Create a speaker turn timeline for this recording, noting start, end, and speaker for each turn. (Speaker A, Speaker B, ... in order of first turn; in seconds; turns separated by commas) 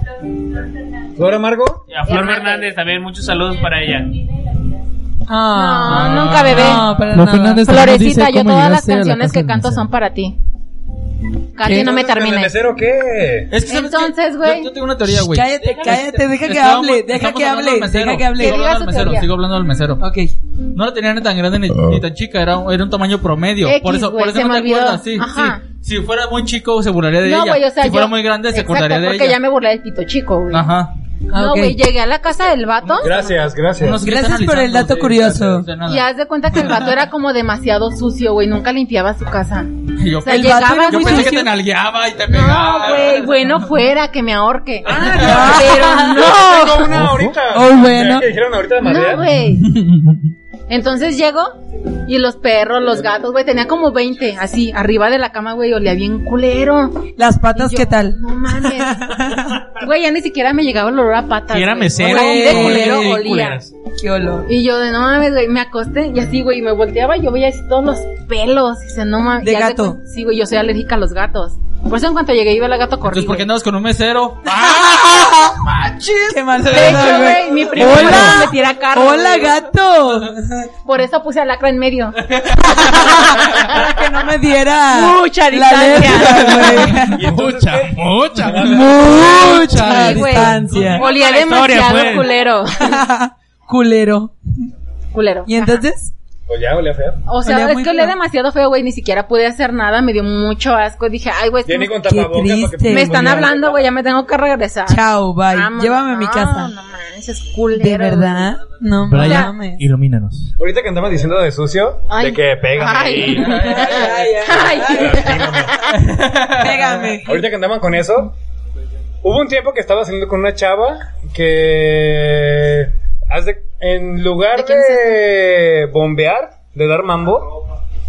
Speaker A: 1.2-1.9, Speaker B: 1.9-4.2, Speaker C: 2.1-2.7, Speaker D: 5.3-7.8, Speaker C: 5.5-6.9, Speaker E: 5.9-6.8, Speaker F: 7.1-9.9, Speaker C: 7.6-10.4, Speaker C: 11.6-12.6, Speaker A: 11.7-13.5, Speaker E: 13.5-20.0, Speaker C: 13.7-14.7, Speaker D: 15.1-18.7, Speaker C: 18.4-19.3, Speaker D: 20.0-20.3, Speaker E: 20.7-29.4, Speaker C: 23.6-25.6, Speaker C: 27.2-30.7, Speaker E: 30.5-30.9, Speaker D: 31.3-31.8, Speaker C: 31.3-33.1, Speaker E: 32.8-36.0, Speaker A: 33.0-34.0, Speaker D: 34.0-35.7, Speaker C: 35.9-39.7, Speaker E: 40.0-43.6, Speaker C: 40.2-41.5, Speaker D: 40.2-41.5, Speaker C: 42.3-47.0, Speaker A: 44.9-49.3, Speaker D: 45.2-48.3, Speaker F: 46.9-47.4, Speaker C: 48.8-49.8, Speaker F: 49.8-50.2, Speaker C: 50.7-51.5, Speaker C: 52.1-59.2, Speaker D: 57.2-59.5, Speaker C: 59.8-63.6, Speaker B: 61.5-63.7, Speaker D: 62.0-63.1, Speaker D: 64.0-64.5, Speaker C: 64.5-73.5, Speaker D: 69.4-70.0, Speaker E: 73.1-74.8, Speaker D: 74.5-75.6, Speaker E: 75.6-78.1, Speaker D: 76.3-80.7, Speaker C: 76.6-79.6, Speaker C: 80.8-84.0, Speaker D: 82.7-87.3, Speaker C: 84.9-87.0, Speaker A: 87.1-89.4, Speaker F: 87.2-90.9, Speaker D: 88.5-91.0, Speaker C: 89.2-93.0, Speaker B: 90.9-92.3, Speaker D: 92.8-94.3, Speaker C: 95.1-95.8, Speaker D: 95.5-96.1, Speaker A: 96.5-97.2, Speaker C: 97.3-102.0, Speaker D: 97.4-98.2, Speaker A: 101.7-103.8, Speaker D: 102.0-103.2, Speaker C: 102.9-108.5, Speaker D: 104.9-106.7, Speaker D: 107.8-109.8, Speaker F: 109.1-110.5, Speaker C: 109.2-109.5, Speaker A: 110.6-113.7, Speaker C: 112.1-116.0, Speaker E: 113.4-114.0, Speaker D: 113.6-115.3, Speaker A: 114.9-115.8, Speaker E: 116.0-117.1, Speaker D: 116.6-117.4, Speaker A: 117.2-118.3, Speaker A: 119.2-127.5, Speaker C: 124.5-125.1